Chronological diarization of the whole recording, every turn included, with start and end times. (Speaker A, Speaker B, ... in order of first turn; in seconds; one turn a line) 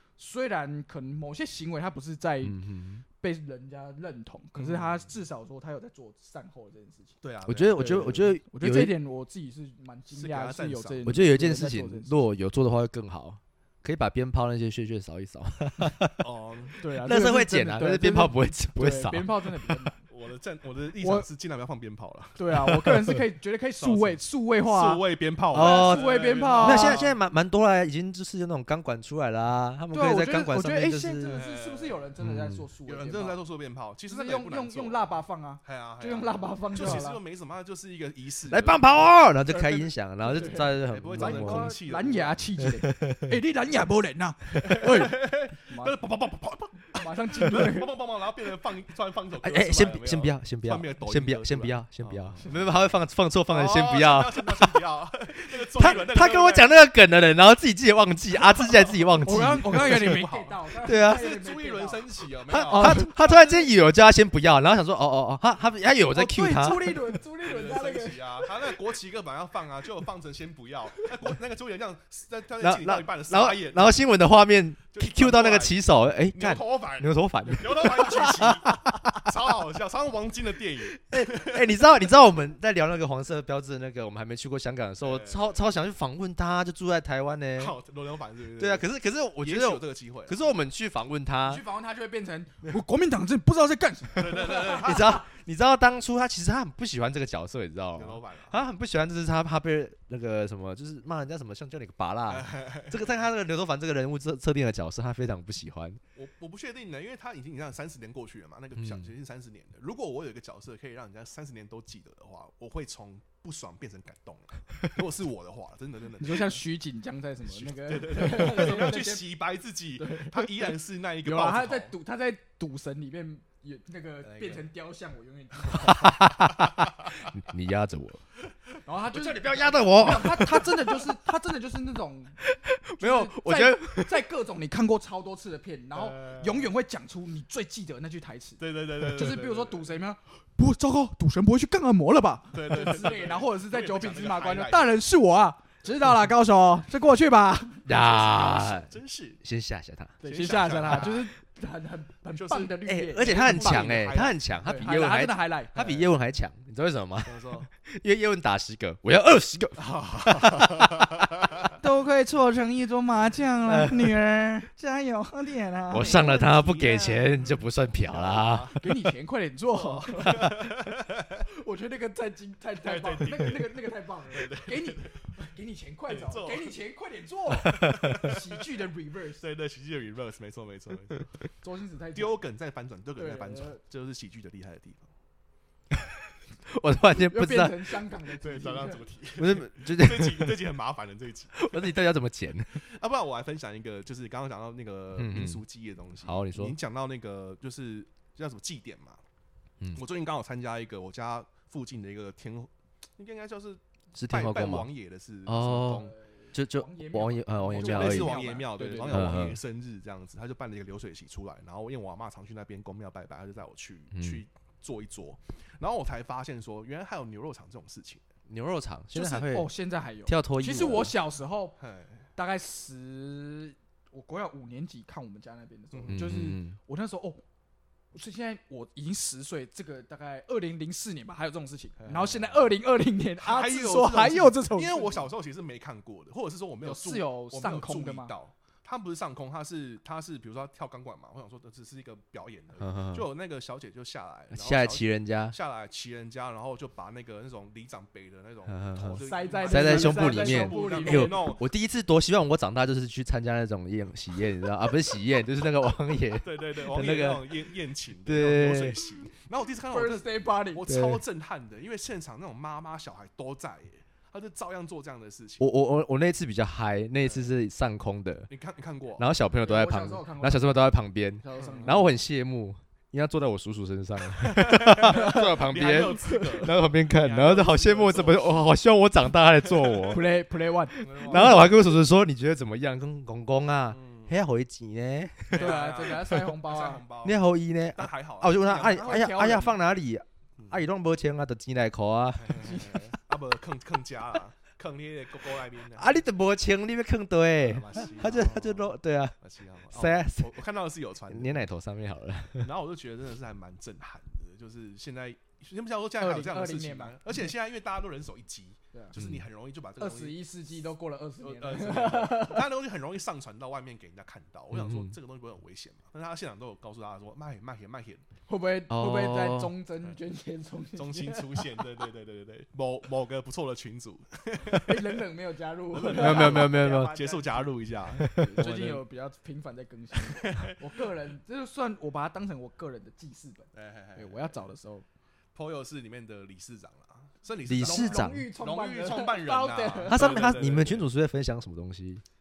Speaker A: 0.2-2.6
Speaker B: 2.4-3.0
Speaker A: 3.2-7.2
Speaker C: 4.5-5.1
Speaker C: 7.2-8.3
Speaker B: 7.5-8.9
Speaker A: 7.8-12.2
Speaker C: 10.1-11.1
Speaker B: 11.1-16.2
Speaker C: 16.2-16.8
Speaker A: 16.8-20.1
Speaker B: 17.0-19.8
Speaker C: 20.1-22.6
Speaker A: 21.0-21.3
Speaker A: 22.4-25.0
Speaker B: 22.7-23.1
Speaker C: 23.8-27.2
Speaker B: 25.5-31.4
Speaker A: 25.5-27.1
Speaker A: 29.9-33.4
Speaker C: 31.3-32.0
Speaker B: 32.2-32.6
Speaker C: 32.9-35.1
Speaker A: 34.1-37.2
Speaker C: 35.6-38.8
Speaker B: 38.5-41.7
Speaker A: 39.5-46.0
Speaker C: 40.4-42.5
Speaker B: 42.6-43.4
Speaker C: 44.6-52.8
Speaker A: 46.9-47.9
Speaker B: 49.4-54.8
Speaker C: 53.5-56.7
Speaker B: 55.7-60.2
Speaker C: 58.3-63.3
Speaker A: 59.2-62.1
Speaker B: 60.8-61.2
Speaker B: 62.5-67.0
Speaker A: 62.6-63.6
Speaker A: 66.1-68.5
Speaker C: 67.4-74.0
Speaker B: 72.6-79.3
Speaker C: 74.9-81.8
Speaker B: 80.9-87.7
Speaker C: 85.0-85.5
Speaker C: 87.6-90.5
Speaker B: 88.6-91.6
Speaker A: 91.5-95.0
Speaker C: 94.2-95.2
Speaker B: 94.3-106.0
Speaker C: 97.9-98.6
Speaker C: 102.3-103.2
Speaker C: 106.1-116.6
Speaker B: 108.8-109.1
Speaker A: 116.2-119.3
Speaker C: 117.5-121.9
Speaker A: 120.0-120.5
Speaker A: 121.2-126.2
Speaker C: 124.2-124.6
Speaker B: 125.7-128.2
Speaker A: 128.8-132.4
Speaker B: 129.1-130.9
Speaker C: 129.6-130.2
Speaker B: 132.4-134.1
Speaker A: 133.0-147.9
Speaker C: 135.9-136.7
Speaker C: 138.6-139.9
Speaker C: 142.5-145.0
Speaker B: 147.8-150.2
Speaker C: 147.9-149.4
Speaker A: 150.2-155.8
Speaker C: 150.2-151.3
Speaker C: 152.3-154.4
Speaker B: 152.8-161.0
Speaker C: 155.8-156.1
Speaker C: 157.2-157.7
Speaker C: 159.8-161.8
Speaker A: 161.8-167.2
Speaker B: 163.7-164.1
Speaker B: 165.9-168.8
Speaker C: 166.0-167.2
Speaker C: 168.0-168.9
Speaker A: 168.7-170.6
Speaker C: 169.7-171.4
Speaker A: 171.5-179.4
Speaker C: 172.8-175.2
Speaker C: 176.1-176.7
Speaker B: 177.7-178.2
Speaker C: 177.8-178.6
Speaker C: 179.4-181.3
Speaker A: 181.6-182.4
Speaker C: 182.1-185.1
Speaker A: 183.2-183.8
Speaker B: 186.7-187.9
Speaker A: 187.2-189.1
Speaker C: 188.4-191.9
Speaker B: 189.4-190.6
Speaker B: 191.6-192.8
Speaker C: 192.7-199.2
Speaker B: 195.2-195.6
Speaker B: 196.2-196.8
Speaker C: 199.9-206.1
Speaker B: 204.1-204.9
Speaker B: 205.4-208.3
Speaker A: 205.8-209.5
Speaker C: 207.7-218.2
Speaker B: 209.1-209.6
Speaker B: 214.1-214.4
Speaker B: 218.5-219.7
Speaker A: 219.1-221.8
Speaker B: 220.2-221.1
Speaker C: 221.8-222.2
Speaker A: 222.4-227.4
Speaker C: 225.9-226.3
Speaker B: 226.1-226.8
Speaker A: 228.1-235.3
Speaker C: 232.0-232.7
Speaker C: 233.4-251.6
Speaker A: 236.8-238.3
Speaker B: 242.8-243.3
Speaker B: 244.5-245.6
Speaker B: 248.7-257.6
Speaker A: 249.2-251.6
Speaker C: 256.4-265.7
Speaker B: 258.2-259.0
Speaker A: 259.9-260.9
Speaker B: 260.9-261.2
Speaker B: 265.6-268.5
Speaker C: 267.2-267.5
Speaker C: 268.5-269.3
Speaker B: 269.2-280.2
Speaker A: 269.6-270.9
Speaker A: 271.4-272.1
Speaker C: 271.6-272.0
Speaker C: 274.3-278.7
Speaker A: 275.1-275.4
Speaker A: 276.0-276.5
Speaker C: 279.6-280.2
Speaker A: 280.1-281.6
Speaker C: 281.0-281.9
Speaker B: 281.2-285.7
Speaker C: 283.9-284.4
Speaker A: 285.5-287.0
Speaker C: 285.5-289.3
Speaker B: 287.2-292.9
Speaker A: 288.8-289.8
Speaker C: 292.4-296.2
Speaker B: 295.9-299.4
Speaker C: 297.6-301.7
Speaker B: 299.9-300.5
Speaker B: 301.3-302.7
Speaker C: 302.6-310.4
Speaker A: 306.2-307.4
Speaker B: 309.1-309.4
Speaker A: 310.0-312.7
Speaker C: 311.4-318.2
Speaker B: 314.7-315.1
Speaker A: 318.5-321.9
Speaker B: 318.9-319.7
Speaker C: 320.9-325.2
Speaker A: 324.6-335.1
Speaker C: 325.9-329.0
Speaker B: 326.1-327.1
Speaker B: 328.2-328.7
Speaker C: 330.1-330.9
Speaker C: 333.7-334.6
Speaker C: 335.5-341.1
Speaker B: 337.7-338.5
Speaker A: 337.8-340.5
Speaker B: 340.1-342.2